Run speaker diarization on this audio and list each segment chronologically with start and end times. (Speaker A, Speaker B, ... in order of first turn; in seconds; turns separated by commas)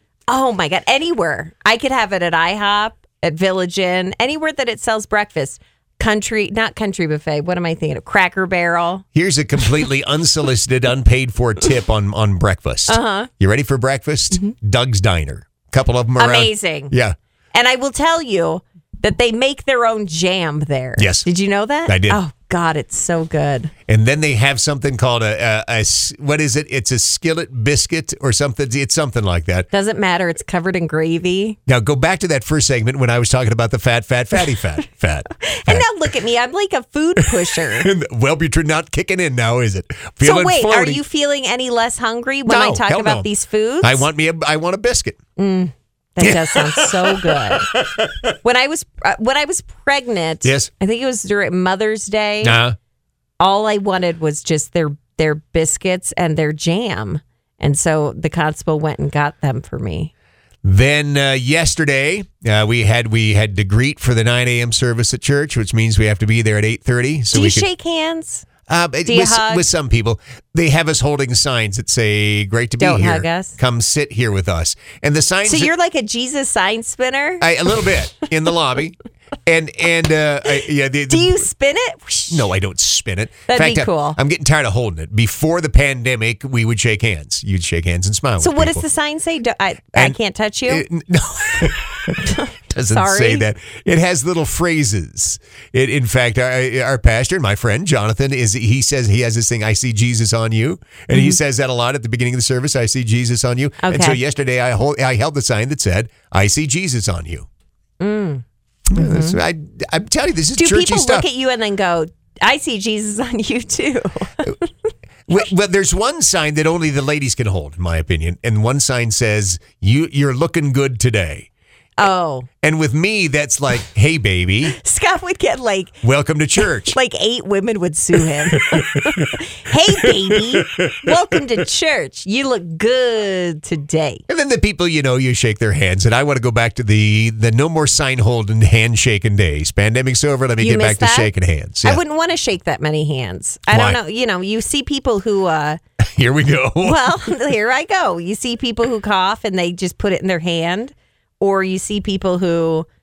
Speaker A: 0.3-9.1, Speaker B: 9.2-17.2, Speaker A: 12.9-13.3, Speaker A: 16.2-16.9, Speaker A: 17.5-23.7, Speaker B: 21.0-21.3, Speaker B: 21.9-22.2, Speaker B: 23.9-29.7, Speaker A: 29.7-31.6, Speaker B: 31.7-35.9, Speaker A: 35.4-37.9, Speaker B: 37.2-41.0, Speaker A: 40.2-44.1, Speaker B: 42.5-43.3, Speaker B: 43.8-45.2, Speaker A: 45.4-47.7, Speaker B: 46.2-48.3, Speaker A: 48.4-52.6, Speaker B: 50.4-50.7, Speaker B: 52.4-52.8, Speaker A: 53.4-60.1, Speaker B: 60.6-67.7, Speaker A: 67.3-68.5, Speaker B: 68.7-75.7, Speaker A: 69.1-69.7, Speaker A: 72.8-73.6, Speaker A: 75.5-77.5, Speaker B: 77.4-81.5, Speaker A: 81.1-82.5, Speaker B: 82.3-88.9, Speaker A: 83.5-84.2, Speaker A: 88.4-90.8, Speaker B: 90.0-107.5, Speaker A: 92.3-93.5, Speaker A: 101.1-101.4, Speaker A: 103.8-104.2, Speaker A: 108.0-109.4, Speaker B: 108.9-111.3, Speaker A: 110.6-114.7, Speaker B: 115.3-121.5, Speaker A: 122.0-122.5, Speaker B: 122.6-124.8, Speaker A: 124.8-126.0, Speaker B: 126.0-127.0, Speaker A: 126.9-134.2, Speaker B: 128.4-129.3, Speaker B: 130.0-131.4, Speaker B: 134.3-142.0, Speaker A: 140.6-141.3, Speaker A: 141.8-145.8, Speaker B: 143.7-144.0, Speaker B: 146.0-147.3, Speaker A: 146.8-152.9